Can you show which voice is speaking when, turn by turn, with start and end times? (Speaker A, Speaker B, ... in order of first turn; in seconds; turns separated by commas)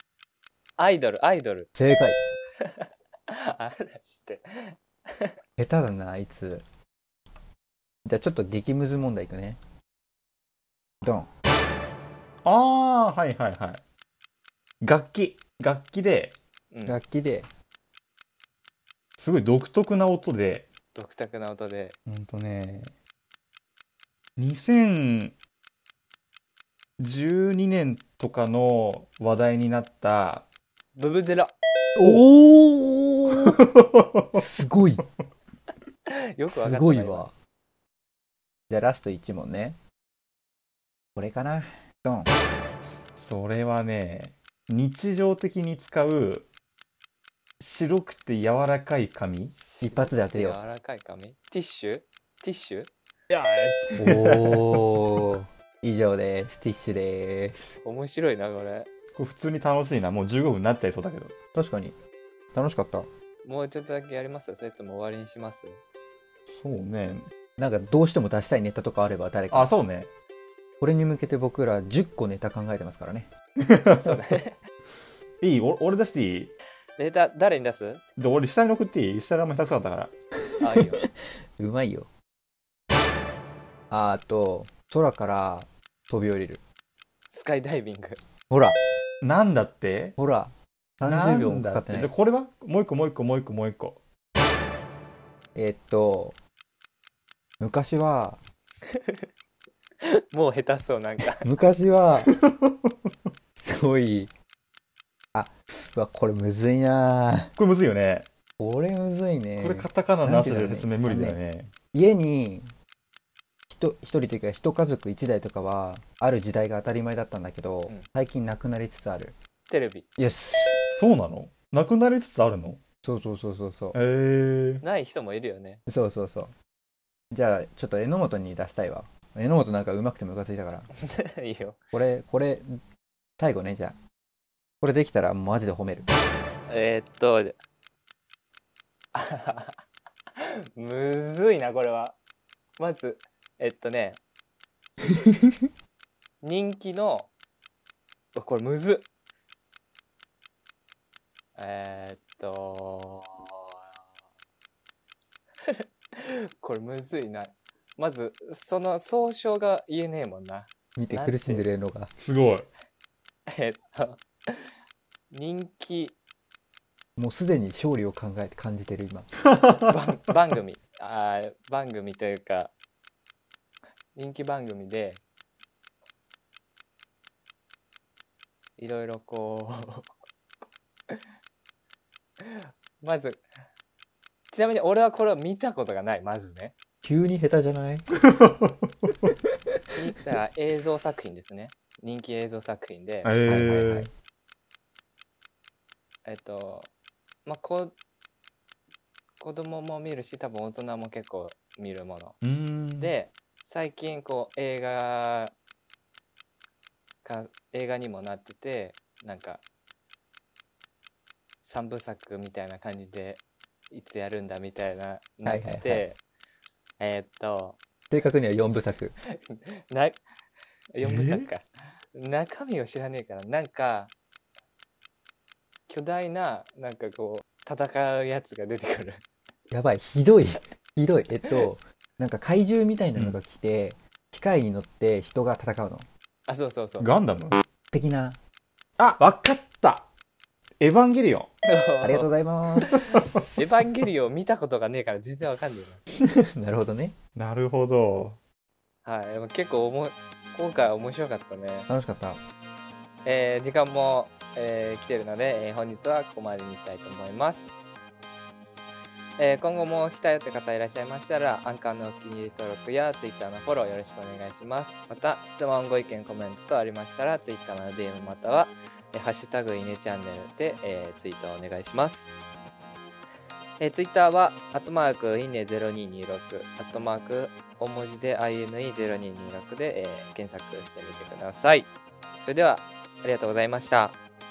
Speaker A: 0.8-1.7, Speaker B: 1.8-2.2, Speaker A: 2.6-5.3, Speaker B: 5.6-6.7, Speaker B: 8.1-9.6, Speaker B: 11.0-11.3, Speaker C: 12.4-13.8, Speaker C: 14.8-16.4, Speaker A: 16.7-17.0, Speaker B: 16.9-17.5, Speaker C: 19.2-20.7, Speaker A: 20.9-22.0, Speaker C: 22.1-22.9, Speaker C: 24.4-25.3, Speaker C: 27.0-30.5, Speaker A: 31.0-31.5, Speaker B: 32.0-33.6, Speaker C: 33.6-34.4, Speaker B: 34.4-35.0, Speaker A: 36.4-37.3, Speaker B: 36.5-37.3, Speaker B: 38.7-39.8, Speaker B: 41.1-42.3, Speaker C: 43.2-46.5, Speaker C: 47.6-49.6, Speaker A: 49.6-52.9, Speaker B: 49.8-50.6, Speaker C: 53.3-54.8, Speaker B: 54.0-57.8, Speaker A: 57.8-58.9, Speaker C: 59.2-61.3, Speaker B: 61.5-62.0, Speaker B: 62.5-63.1, Speaker A: 63.4-65.8, Speaker C: 66.5-67.3, Speaker B: 67.6-69.7, Speaker C: 69.5-70.1, Speaker B: 70.8-73.3, Speaker C: 73.7-74.2, Speaker A: 74.0-74.6, Speaker C: 75.4-76.5, Speaker A: 77.0-78.0, Speaker C: 78.2-80.1, Speaker A: 80.6-81.0, Speaker B: 81.6-82.1, Speaker B: 83.9-86.6, Speaker A: 87.3-88.2, Speaker B: 88.5-88.8, Speaker C: 89.2-90.2, Speaker B: 90.2-92.1, Speaker C: 91.0-94.0, Speaker B: 95.5-96.4, Speaker B: 97.6-98.4, Speaker A: 98.9-99.3, Speaker A: 100.0-101.5, Speaker B: 101.3-102.3, Speaker B: 103.6-104.3, Speaker B: 105.3-107.5, Speaker C: 107.6-108.3, Speaker B: 108.6-111.4, Speaker C: 109.6-111.7, Speaker B: 111.9-112.7, Speaker B: 113.7-119.3, Speaker A: 119.7-120.1, Speaker B: 120.2-120.8, Speaker C: 120.9-122.8, Speaker B: 123.0-124.0, Speaker C: 123.9-124.8, Speaker A: 124.8-125.8, Speaker B: 125.9-126.5, Speaker B: 127.3-130.9, Speaker A: 131.0-131.8, Speaker B: 131.9-132.8, Speaker B: 133.4-134.0, Speaker B: 134.8-136.1, Speaker A: 136.7-137.6, Speaker A: 139.1-139.8, Speaker A: 140.4-142.2, Speaker A: 142.8-144.2, Speaker A: 146.4-147.3, Speaker A: 148.3-149.1, Speaker A: 151.6-153.6, Speaker A: 156.2-161.7, Speaker B: 161.0-162.1, Speaker C: 162.2-162.7, Speaker A: 163.5-164.7, Speaker A: 165.3-166.2, Speaker B: 167.2-169.3, Speaker C: 169.5-169.9, Speaker A: 169.9-172.7, Speaker A: 174.2-175.2, Speaker A: 178.8-180.1, Speaker A: 182.4-183.4, Speaker A: 184.5-186.7, Speaker B: 187.0-188.1, Speaker C: 188.4-189.1, Speaker B: 189.5-189.8, Speaker A: 190.0-193.3, Speaker C: 193.2-194.1, Speaker B: 193.5-194.1, Speaker A: 196.2-196.9, Speaker A: 197.5-198.0, Speaker A: 199.4-202.4, Speaker C: 202.4-203.1, Speaker A: 203.0-205.6, Speaker A: 207.2-209.6, Speaker A: 211.6-216.2, Speaker B: 215.4-216.1, Speaker A: 217.0-217.8, Speaker B: 218.1-219.1, Speaker A: 219.3-220.2, Speaker A: 221.0-224.1, Speaker C: 221.0-221.5, Speaker A: 225.9-229.2, Speaker B: 229.7-236.1, Speaker A: 236.5-237.2, Speaker C: 237.0-237.6, Speaker B: 237.9-238.4, Speaker C: 239.0-240.1, Speaker C: 240.8-241.5, Speaker A: 241.7-242.3, Speaker B: 242.0-243.6, Speaker A: 242.8-246.0, Speaker C: 243.0-243.4, Speaker B: 246.6-247.2, Speaker C: 247.4-248.4, Speaker A: 249.1-251.9, Speaker B: 251.9-252.4, Speaker A: 253.2-257.7, Speaker A: 259.4-272.3, Speaker A: 273.8-281.9, Speaker A: 282.4-284.2